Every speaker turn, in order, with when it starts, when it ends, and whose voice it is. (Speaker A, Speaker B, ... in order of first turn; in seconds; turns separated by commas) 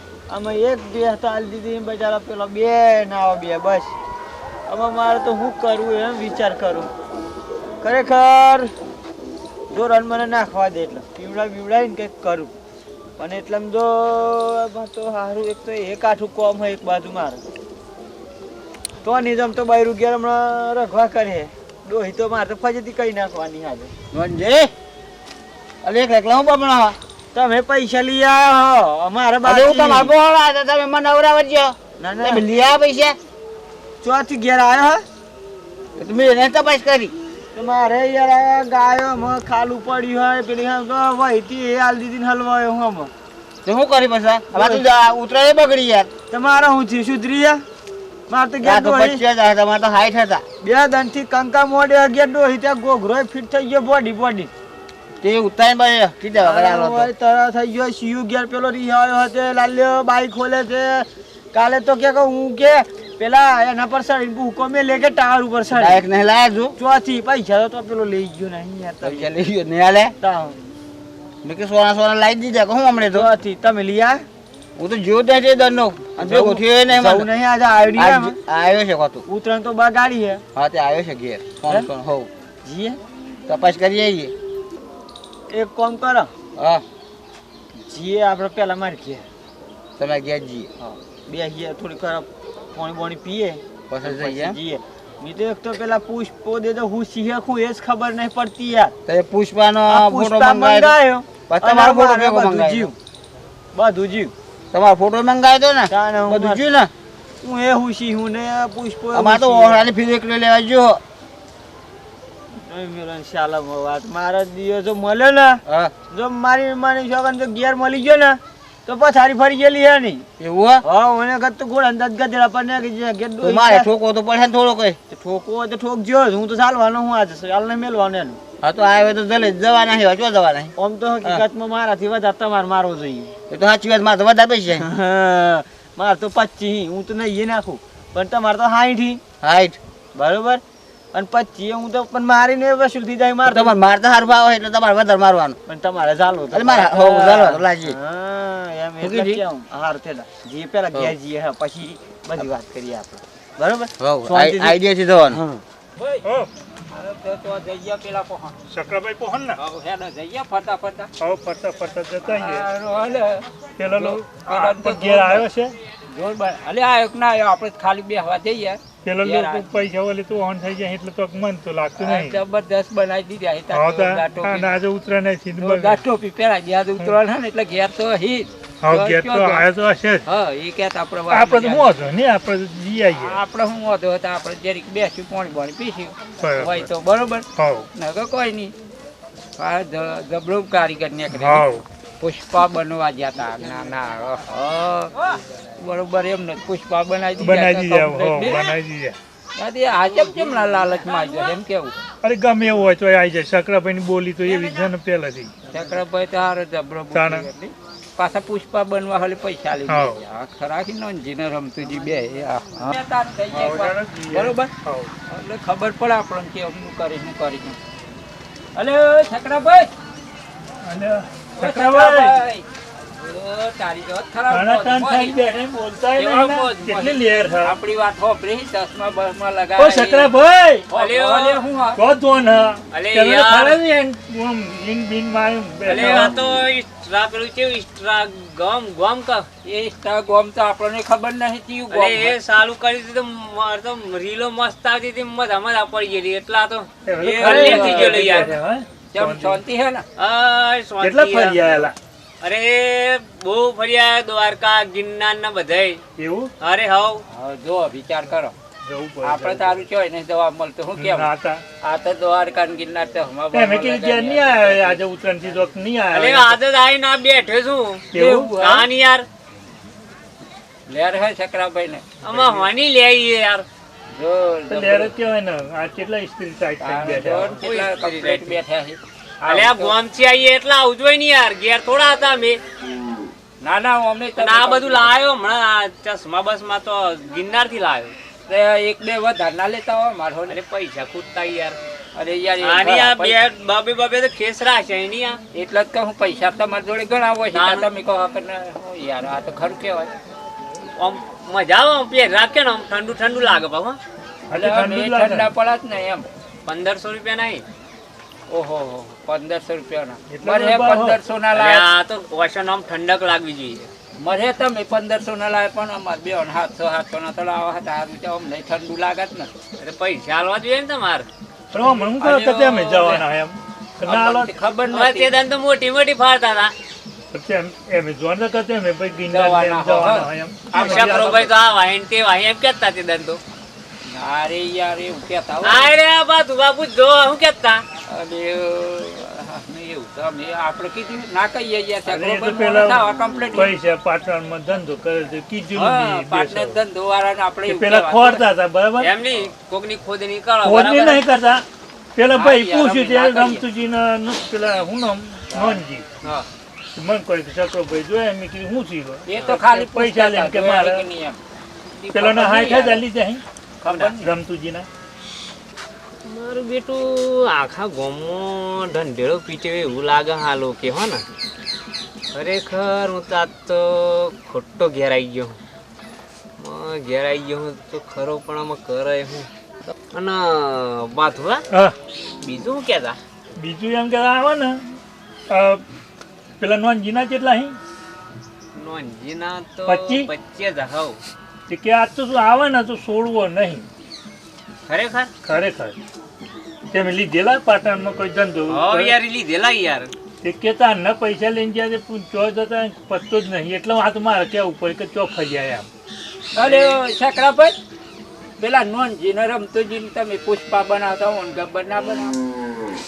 Speaker A: 0.3-3.9, Speaker A: 4.7-6.9, Speaker A: 7.8-8.7, Speaker A: 9.7-12.5, Speaker A: 13.2-17.4, Speaker A: 19.0-23.9, Speaker B: 24.1-24.7, Speaker B: 25.8-27.0, Speaker A: 27.3-30.1, Speaker B: 29.4-33.2, Speaker A: 32.0-32.5, Speaker A: 34.0-35.0, Speaker B: 36.0-37.1, Speaker A: 37.5-43.1, Speaker B: 43.6-46.1, Speaker A: 44.5-44.9, Speaker A: 46.3-47.6, Speaker A: 48.3-49.2, Speaker B: 48.6-50.4, Speaker A: 50.6-54.5, Speaker B: 55.2-57.1, Speaker A: 56.4-66.0, Speaker B: 65.7-66.8, Speaker A: 66.8-69.3, Speaker B: 69.0-70.2, Speaker A: 70.2-70.6, Speaker B: 71.4-73.3, Speaker A: 73.1-74.2, Speaker B: 74.8-77.3, Speaker A: 76.2-78.3, Speaker B: 78.0-79.2, Speaker A: 79.3-80.4, Speaker B: 80.5-82.3, Speaker A: 82.7-83.0, Speaker B: 83.5-84.3, Speaker A: 85.5-86.3, Speaker B: 86.6-86.8, Speaker A: 87.9-89.2, Speaker B: 90.0-90.7, Speaker A: 90.8-98.9, Speaker B: 93.9-94.6, Speaker B: 99.1-100.9, Speaker A: 99.9-103.0, Speaker B: 101.5-102.9, Speaker A: 103.7-104.3, Speaker B: 104.7-106.9, Speaker A: 105.9-106.7, Speaker A: 107.4-109.9, Speaker B: 109.1-111.0, Speaker A: 112.7-120.2, Speaker B: 115.7-115.9, Speaker B: 120.4-120.8, Speaker A: 120.8-123.9, Speaker B: 123.4-125.0, Speaker A: 125.1-128.4, Speaker B: 128.6-130.7, Speaker A: 130.8-133.3, Speaker B: 133.5-134.9, Speaker A: 134.8-139.2, Speaker B: 139.4-139.8, Speaker A: 140.1-140.6, Speaker A: 141.1-143.8, Speaker B: 143.4-145.6, Speaker A: 145.7-154.8, Speaker B: 146.5-148.0, Speaker B: 149.0-149.4, Speaker B: 154.0-155.4, Speaker A: 155.3-155.6, Speaker C: 156.0-156.3, Speaker C: 156.9-158.6, Speaker D: 158.7-159.6, Speaker C: 159.6-161.1, Speaker D: 161.2-162.7, Speaker C: 162.3-165.4, Speaker D: 163.8-165.7, Speaker C: 166.1-169.7, Speaker D: 169.0-172.4, Speaker C: 172.0-174.7, Speaker D: 173.7-176.0, Speaker C: 175.6-179.7, Speaker D: 178.8-180.2, Speaker C: 180.2-181.9, Speaker D: 181.3-183.4, Speaker C: 183.2-188.7, Speaker D: 186.4-186.9, Speaker D: 187.6-187.9, Speaker C: 189.6-191.7, Speaker D: 191.3-191.8, Speaker C: 192.2-195.1, Speaker C: 195.8-198.7, Speaker D: 197.4-199.2, Speaker C: 199.6-201.9, Speaker D: 202.2-205.5, Speaker C: 204.5-204.8, Speaker C: 205.7-214.7, Speaker D: 207.1-207.5, Speaker D: 209.9-210.2, Speaker D: 213.5-215.1, Speaker C: 215.3-217.8, Speaker C: 218.8-219.9, Speaker D: 220.8-222.4, Speaker C: 221.6-222.7, Speaker C: 223.2-225.4, Speaker D: 224.5-227.8, Speaker C: 226.2-230.3, Speaker D: 229.8-230.9, Speaker C: 230.9-232.0, Speaker E: 230.9-231.6, Speaker D: 232.0-236.4, Speaker E: 232.9-233.8, Speaker E: 235.9-239.5, Speaker C: 239.7-242.4, Speaker E: 241.9-248.5, Speaker D: 247.1-249.6, Speaker C: 247.2-248.5, Speaker C: 249.1-250.1, Speaker E: 250.2-251.9, Speaker D: 251.0-251.9, Speaker E: 252.4-256.0, Speaker D: 256.2-256.5, Speaker E: 256.6-257.2, Speaker C: 257.3-258.6, Speaker D: 258.8-259.9, Speaker C: 259.2-261.3, Speaker D: 261.0-261.6, Speaker C: 261.8-265.6, Speaker D: 263.5-266.6, Speaker E: 266.1-269.3, Speaker D: 268.1-268.6, Speaker C: 268.1-268.9, Speaker C: 270.9-272.7, Speaker E: 272.2-273.7, Speaker C: 274.1-275.1, Speaker D: 274.7-277.6, Speaker C: 276.8-279.9, Speaker E: 277.6-278.6, Speaker E: 279.5-282.6, Speaker C: 283.6-285.1, Speaker E: 284.4-288.1, Speaker C: 288.5-290.6, Speaker E: 290.5-291.8, Speaker C: 292.2-293.4, Speaker E: 292.6-295.4, Speaker C: 295.5-300.1, Speaker E: 297.5-297.9, Speaker E: 301.0-304.0, Speaker C: 304.5-306.3, Speaker D: 304.5-305.5, Speaker E: 306.7-307.6, Speaker C: 308.5-311.9, Speaker D: 310.3-311.2, Speaker E: 311.5-313.9, Speaker C: 314.2-319.5, Speaker E: 319.8-321.3, Speaker D: 321.7-324.5, Speaker C: 322.2-323.3, Speaker C: 324.0-325.4, Speaker E: 324.9-326.7, Speaker D: 327.3-331.4, Speaker C: 329.3-331.5, Speaker E: 330.7-333.4, Speaker C: 334.1-335.9, Speaker E: 335.6-337.8, Speaker C: 338.1-343.7, Speaker D: 342.1-343.0, Speaker D: 343.6-346.8, Speaker C: 345.8-348.5, Speaker D: 347.7-349.1, Speaker E: 349.0-351.2, Speaker D: 350.6-351.6, Speaker D: 352.2-356.1, Speaker C: 352.3-353.6, Speaker C: 355.5-356.4, Speaker D: 357.0-361.1, Speaker C: 359.3-361.4, Speaker C: 362.0-363.0, Speaker D: 362.1-363.4, Speaker C: 363.8-364.3, Speaker D: 364.2-364.9, Speaker E: 366.3-371.2, Speaker E: 372.3-375.6, Speaker E: 376.6-379.5, Speaker E: 380.1-381.6, Speaker E: 382.4-383.2, Speaker D: 383.6-384.8, Speaker D: 385.5-385.8, Speaker D: 386.6-387.8, Speaker E: 388.8-391.2, Speaker D: 389.9-390.3, Speaker D: 391.7-393.9, Speaker E: 394.9-395.3, Speaker D: 395.4-395.9, Speaker D: 396.9-399.1, Speaker E: 398.7-400.1, Speaker D: 400.4-405.9, Speaker C: 406.6-407.8, Speaker E: 406.6-407.0, Speaker C: 408.6-412.4